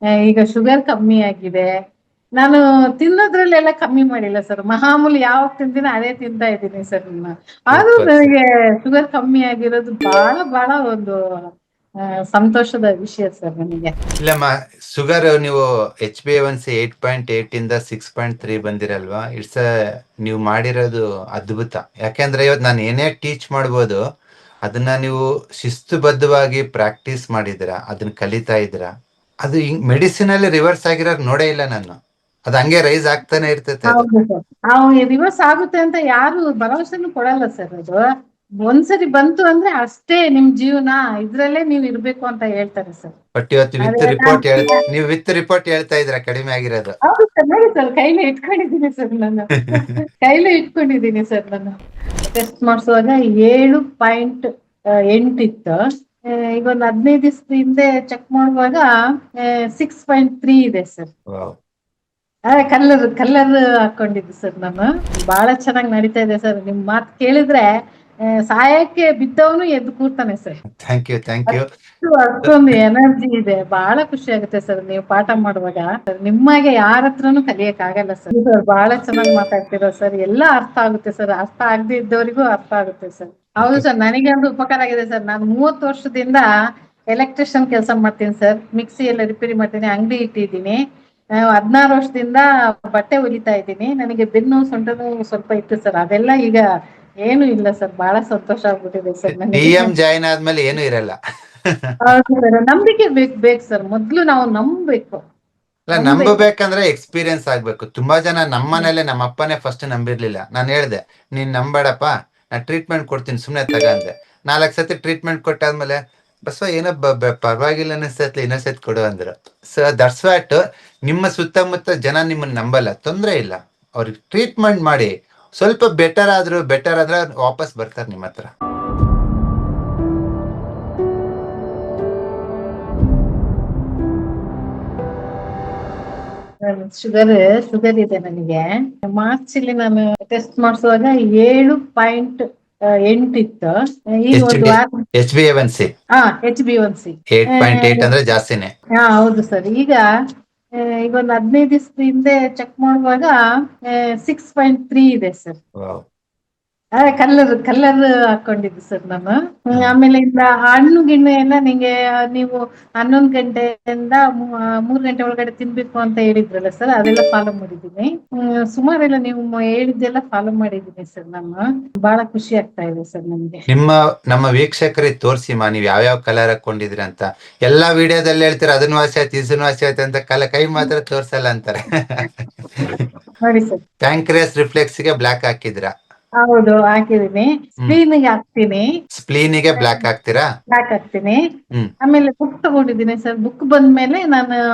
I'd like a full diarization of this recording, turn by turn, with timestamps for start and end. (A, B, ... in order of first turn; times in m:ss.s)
0:00.2-0:01.7 A
0:02.4-0:11.2 A
0:07.7-0:08.3 B
0:12.3-0:13.9 A
0:14.2-0:19.6 B
0:20.2-0:24.0 B
0:24.6-0:28.9 B
0:29.4-0:31.9 B
0:32.5-0:34.0 B
0:33.9-0:38.0 A
0:38.6-0:43.1 A
0:43.4-0:46.9 B
0:43.8-0:44.7 A
0:47.1-0:51.8 A
0:52.3-0:54.5 A
0:55.1-0:55.8 A
0:56.3-0:58.9 A
0:59.4-1:01.1 A
1:02.5-1:07.6 A
1:08.5-1:10.6 A
1:10.8-1:11.7 B
1:11.5-1:26.4 A
1:12.4-1:12.8 B
1:27.1-1:30.8 A
1:31.5-1:36.6 A
1:37.2-1:39.9 A
1:39.3-1:41.1 B
1:41.6-1:42.4 B
1:42.0-1:45.2 A
1:45.9-2:08.5 B
1:45.9-1:46.4 A
2:16.6-2:22.4 A
2:23.1-2:24.9 A
2:24.3-2:25.9 B
2:26.2-2:28.1 A
2:27.3-2:28.7 B
2:29.0-2:30.0 A
2:31.0-2:33.3 A
2:33.9-2:35.6 A
2:37.0-2:53.6 A
2:53.7-3:03.0 B
3:03.4-3:03.8 A
3:04.0-3:05.9 B
3:06.4-3:08.9 A
3:09.1-3:10.5 B
3:10.7-3:11.4 A
3:12.0-3:14.5 A